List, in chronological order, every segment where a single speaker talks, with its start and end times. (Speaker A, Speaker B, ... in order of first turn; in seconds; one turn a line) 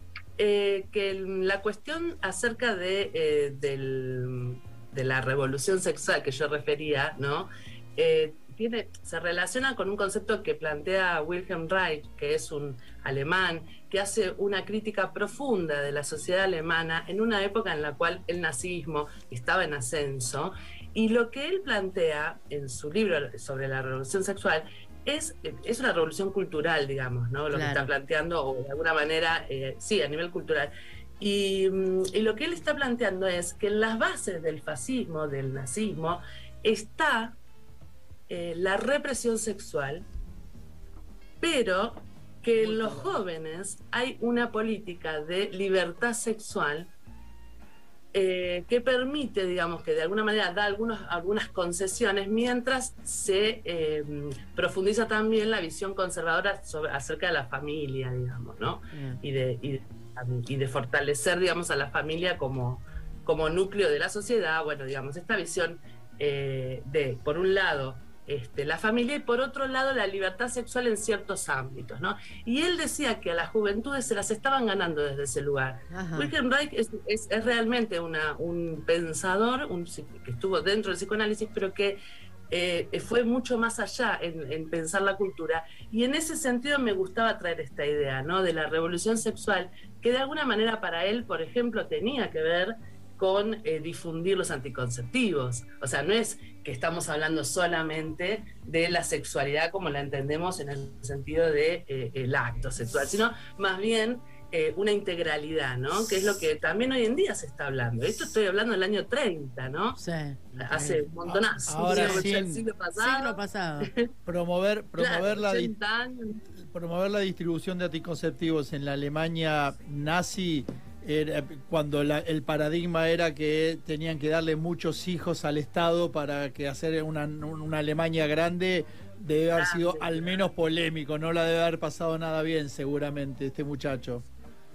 Speaker A: 0.4-37.4
Speaker B: 27.5-27.8
Speaker A: 38.3-40.1
Speaker A: 41.4-46.9
Speaker C: 42.6-43.2
Speaker A: 48.1-82.0
Speaker B: 58.9-59.2
Speaker B: 75.9-76.3
Speaker A: 82.5-110.0
Speaker B: 110.0-111.1
Speaker A: 110.6-114.1
Speaker C: 111.3-112.6
Speaker B: 111.8-112.3
Speaker B: 113.0-113.9
Speaker C: 114.3-115.7
Speaker A: 115.0-116.4
Speaker C: 116.6-134.2
Speaker A: 129.5-130.5